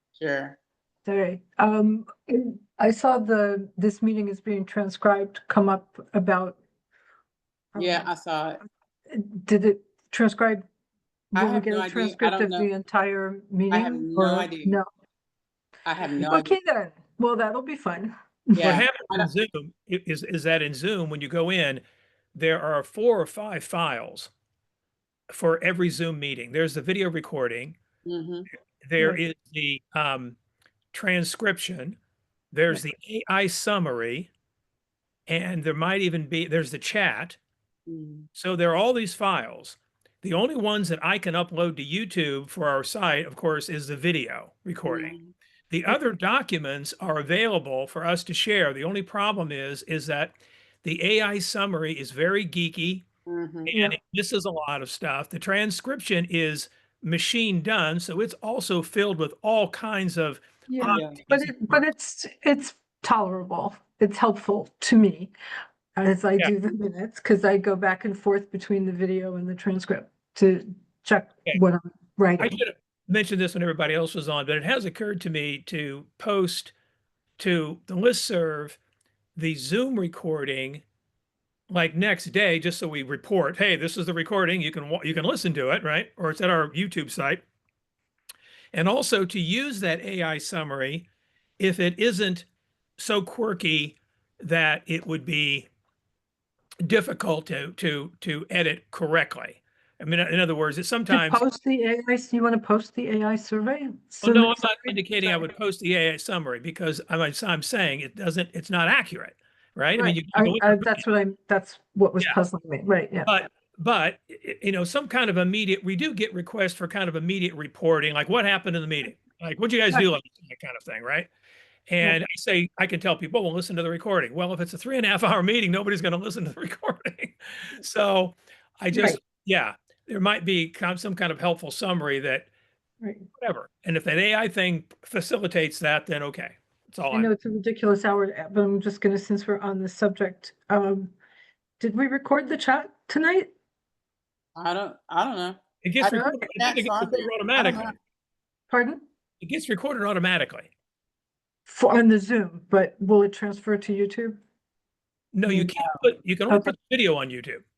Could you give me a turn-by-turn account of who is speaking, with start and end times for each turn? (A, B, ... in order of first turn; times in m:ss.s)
0:00.2-0:00.6 A
0:01.0-0:06.6 B
0:07.7-0:08.1 B
0:07.8-0:08.6 A
0:09.1-0:10.6 B
0:11.3-0:14.8 B
0:11.4-0:12.7 A
0:13.7-0:14.8 A
0:15.8-0:16.5 A
0:16.2-0:18.8 B
0:18.6-0:19.3 A
0:18.6-0:21.8 C
0:22.4-0:24.3 C
0:25.3-0:27.8 C
0:28.0-0:28.5 A
0:28.8-0:30.4 C
0:30.9-0:32.0 C
0:32.5-0:34.3 C
0:35.3-0:37.4 C
0:37.9-0:38.3 A
0:38.4-0:45.2 C
0:44.8-0:45.3 A
0:45.7-0:53.0 C
0:53.3-0:53.7 A
0:53.7-1:01.8 C
0:53.7-0:54.0 B
1:00.7-1:05.3 B
1:00.9-1:01.2 A
1:06.0-1:12.5 B
1:12.4-1:16.7 C
1:17.4-1:18.8 C
1:19.4-1:20.8 C
1:21.7-1:27.4 C
1:28.7-1:31.1 C
1:31.6-1:32.5 C
1:33.0-1:35.7 C
1:36.8-1:41.4 C
1:41.1-1:45.5 B
1:44.2-1:51.0 C
1:49.9-1:53.3 B
1:53.3-2:01.3 C
2:01.9-2:12.5 C
2:08.9-2:09.2 B
2:13.0-2:13.3 B
2:13.4-2:17.3 C
2:17.1-2:21.2 B
2:21.8-2:23.5 B
2:24.6-2:27.9 A
2:25.8-2:27.9 C
2:26.0-2:26.4 B
2:28.7-2:29.0 B
2:29.4-2:30.7 C
2:31.7-2:34.4 B
2:35.3-2:37.6 C